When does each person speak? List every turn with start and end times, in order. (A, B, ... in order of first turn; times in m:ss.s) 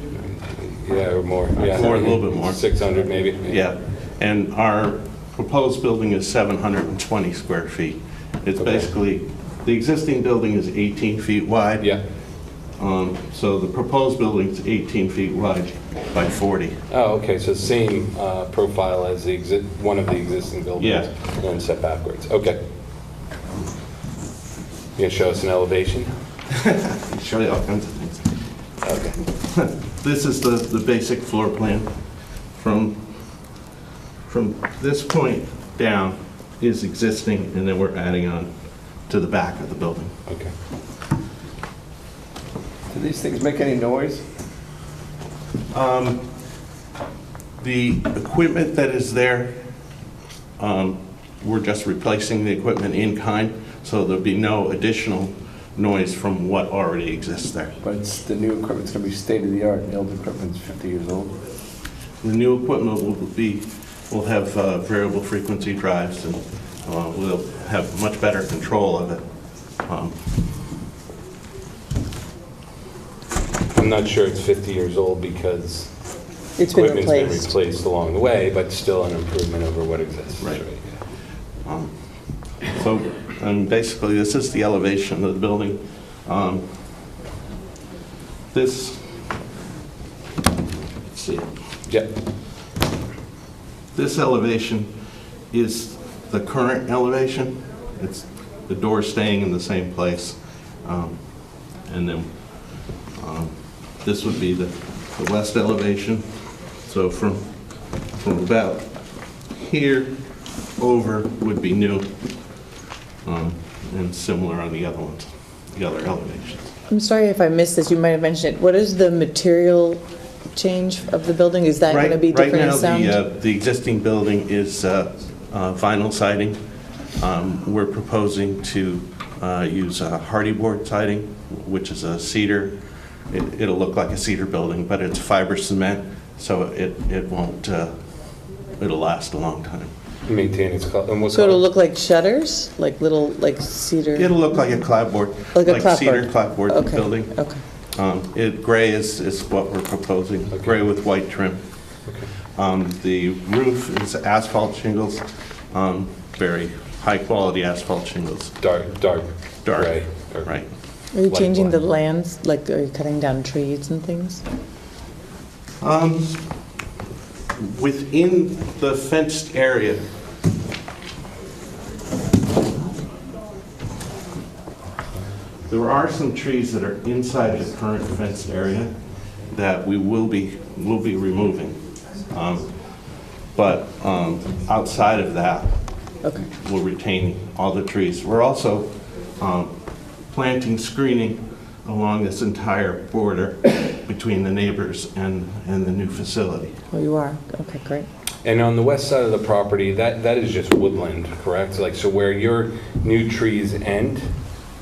0:00.1-0:03.6 A
0:01.6-0:02.6 B
0:03.4-0:11.9 B
0:08.6-0:08.9 A
0:12.8-0:16.8 B
0:16.9-0:22.6 A
0:20.8-0:21.1 B
0:25.0-0:26.1 A
0:26.5-0:28.4 B
0:28.8-0:29.2 A
0:29.4-0:31.9 B
0:32.5-0:33.2 B
0:34.2-0:38.5 B
0:39.1-0:40.1 B
0:40.3-0:40.5 A
0:42.9-0:44.2 C
0:45.7-0:46.2 B
0:47.6-0:49.6 B
0:50.6-0:57.7 B
0:57.8-1:01.4 C
1:02.2-1:09.2 B
1:09.8-1:10.2 B
1:13.7-1:15.9 A
1:16.6-1:17.5 D
1:16.6-1:20.8 A
1:21.6-1:22.0 B
1:22.6-1:26.6 B
1:28.5-1:29.2 B
1:31.1-1:31.5 B
1:31.9-1:32.1 A
1:33.9-1:35.0 B
1:35.5-1:47.4 B
1:48.1-1:48.9 B
1:49.5-1:50.1 B
1:50.8-1:52.1 B
1:53.2-1:56.7 B
1:56.9-2:00.0 D
2:00.5-2:03.2 D
2:01.9-2:06.6 B
2:07.2-2:12.7 B
2:13.3-2:17.9 B
2:18.8-2:19.9 B
2:20.3-2:21.6 A
2:21.3-2:24.3 D
2:24.2-2:27.3 B
2:25.5-2:27.6 D
2:28.0-2:31.6 B
2:30.5-2:30.8 A
2:32.5-2:38.5 B
2:38.6-2:40.6 A
2:39.6-2:40.7 B
2:41.1-2:44.4 D
2:41.2-2:41.8 A
2:45.8-2:46.4 B
2:47.6-2:50.0 B
2:55.7-2:58.9 B
2:59.4-3:02.7 B
3:03.5-3:05.7 B
3:06.4-3:09.7 B
3:10.3-3:16.7 B
3:16.9-3:18.1 D
3:18.4-3:24.2 A